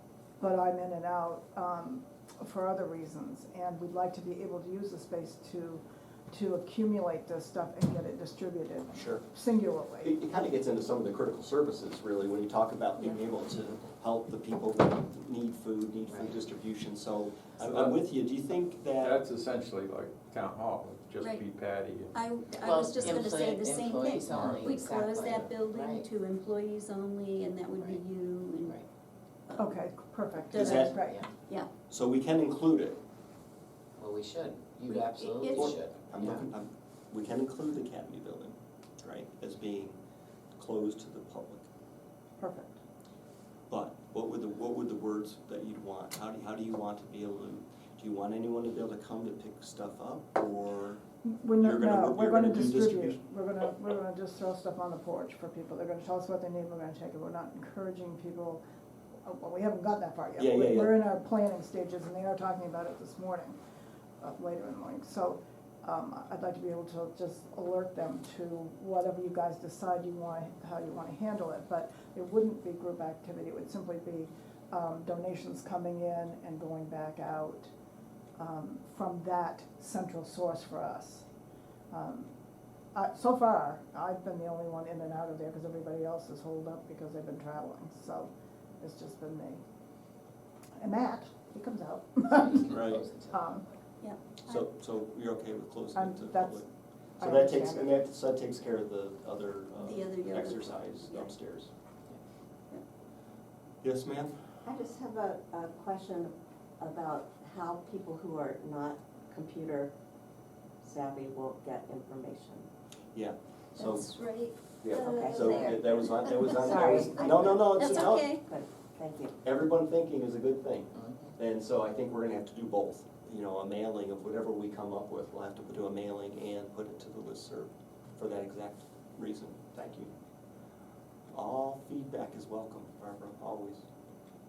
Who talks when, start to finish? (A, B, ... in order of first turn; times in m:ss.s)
0:00.4-0:10.2 A
0:08.9-0:09.2 B
0:10.0-0:19.2 B
0:16.1-0:16.4 C
0:17.6-0:18.0 D
0:19.0-0:22.1 D
0:21.2-0:21.4 E
0:22.1-0:28.8 E
0:22.6-0:26.1 C
0:24.2-0:24.8 D
0:29.5-0:29.8 E
0:29.6-0:31.2 A
0:30.5-0:31.7 E
0:30.5-0:31.0 B
0:30.9-0:31.3 C
0:31.9-0:33.0 B
0:34.0-0:36.5 C
0:34.9-0:35.8 E
0:35.5-0:40.0 B
0:40.6-0:41.6 B
0:42.4-0:42.8 A
0:43.7-0:51.0 B
0:51.2-0:58.6 A
0:51.6-0:53.2 B
0:59.2-1:03.6 A
1:00.4-1:01.0 B
1:04.2-1:17.7 A
1:18.4-1:21.2 A
1:21.9-1:22.3 A
1:22.9-1:29.6 A
1:30.8-1:33.7 A
1:32.4-1:33.4 C
1:32.7-1:33.0 B
1:34.0-1:34.7 E
1:34.5-1:36.6 B
1:35.9-1:36.7 A
1:37.2-1:37.9 A
1:37.2-1:41.7 B
1:39.8-1:41.3 E
1:43.8-1:44.4 B
1:44.6-1:49.9 F
1:50.8-1:52.7 F
1:53.1-1:54.1 B
1:53.8-1:58.4 E
1:54.8-1:58.4 B
1:54.9-1:59.3 F
1:59.4-2:10.1 B
2:11.3-2:13.8 B